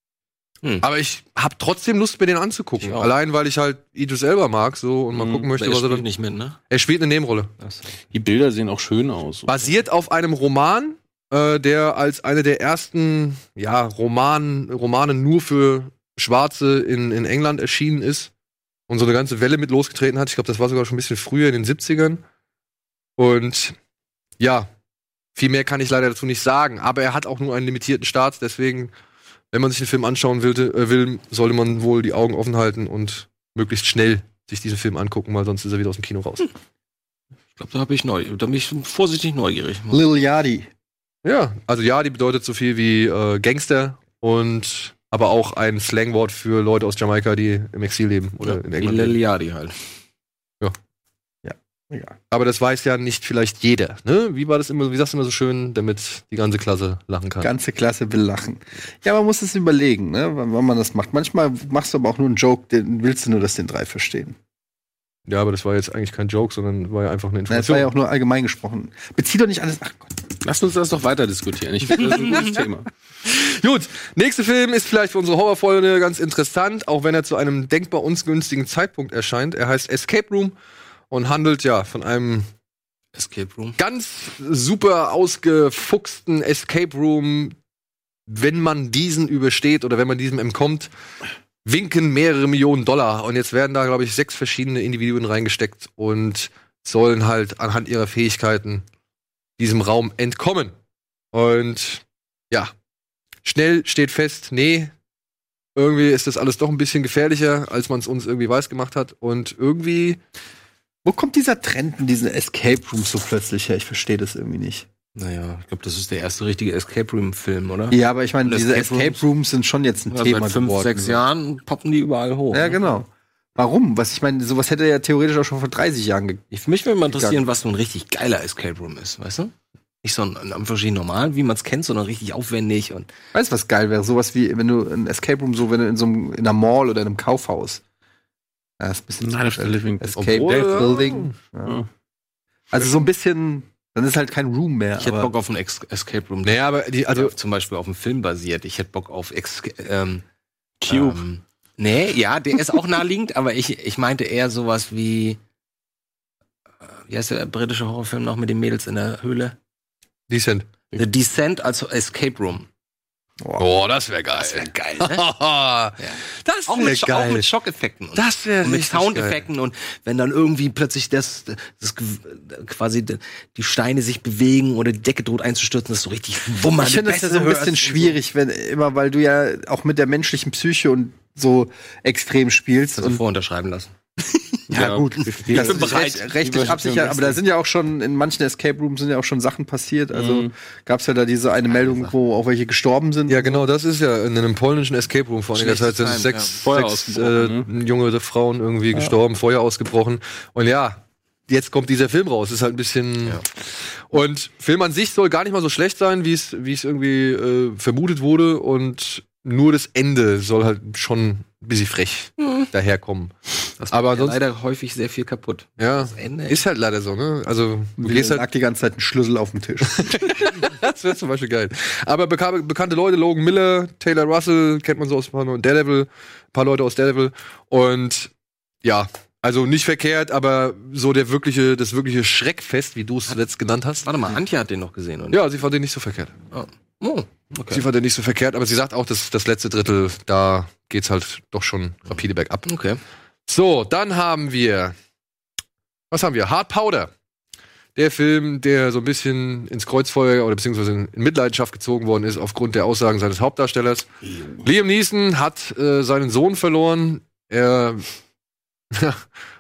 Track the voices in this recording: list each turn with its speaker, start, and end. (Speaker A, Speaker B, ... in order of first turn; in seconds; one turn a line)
Speaker A: 0.8-6.1
Speaker B: 2.8-3.1
Speaker B: 5.2-6.6
Speaker A: 6.7-7.5
Speaker B: 7.6-7.9
Speaker C: 8.1-9.6
Speaker A: 9.5-18.3
Speaker A: 18.9-22.2
Speaker A: 23.2-23.8
Speaker A: 24.4-24.7
Speaker A: 25.4-28.9
Speaker A: 29.5-36.5
Speaker B: 37.6-40.0
Speaker D: 39.9-40.7
Speaker A: 41.2-49.2
Speaker B: 48.4-49.8
Speaker D: 51.4-52.2
Speaker A: 52.3-57.5
Speaker D: 57.4-64.4
Speaker A: 65.3-67.9
Speaker D: 67.5-70.2
Speaker C: 70.4-72.9
Speaker A: 73.2-80.5
Speaker A: 81.1-82.5
Speaker B: 83.2-83.8
Speaker A: 83.8-87.5
Speaker A: 88.3-90.9
Speaker A: 91.7-98.8
Speaker A: 99.6-100.7
Speaker A: 101.3-102.7
Speaker A: 103.5-104.9
Speaker A: 105.8-110.2
Speaker D: 111.0-114.9
Speaker B: 115.2-119.2
Speaker D: 117.9-121.2
Speaker B: 120.1-122.8
Speaker D: 122.5-126.4
Speaker B: 126.5-133.1
Speaker D: 127.1-127.4
Speaker D: 133.3-137.8
Speaker D: 138.8-141.8
Speaker C: 139.2-141.0
Speaker A: 140.3-141.3
Speaker D: 142.7-145.3
Speaker B: 145.0-150.2
Speaker A: 146.4-147.3
Speaker C: 150.8-151.2
Speaker B: 150.9-155.4
Speaker B: 156.8-159.6
Speaker A: 160.3-160.7
Speaker B: 160.9-162.7
Speaker D: 163.4-163.7
Speaker A: 163.6-167.5
Speaker B: 164.4-165.2
Speaker B: 166.0-178.2
Speaker A: 168.2-169.4
Speaker D: 176.8-183.2
Speaker B: 182.9-184.6
Speaker C: 184.7-187.4
Speaker D: 184.7-193.7
Speaker B: 185.5-186.2
Speaker C: 190.1-190.5
Speaker B: 191.8-192.1
Speaker A: 193.3-203.4
Speaker B: 195.6-196.7
Speaker C: 196.6-197.7
Speaker A: 204.1-213.3
Speaker B: 212.4-212.7
Speaker B: 213.8-216.6
Speaker A: 213.9-214.4
Speaker A: 215.8-218.4
Speaker D: 218.0-220.3
Speaker A: 220.0-228.3
Speaker A: 228.8-234.1
Speaker B: 234.0-235.4
Speaker A: 235.3-236.3
Speaker B: 236.5-237.8
Speaker A: 237.7-242.7
Speaker B: 242.1-243.0
Speaker A: 243.5-244.9
Speaker A: 246.1-247.1
Speaker A: 248.0-254.1
Speaker A: 254.6-258.1
Speaker A: 258.9-259.2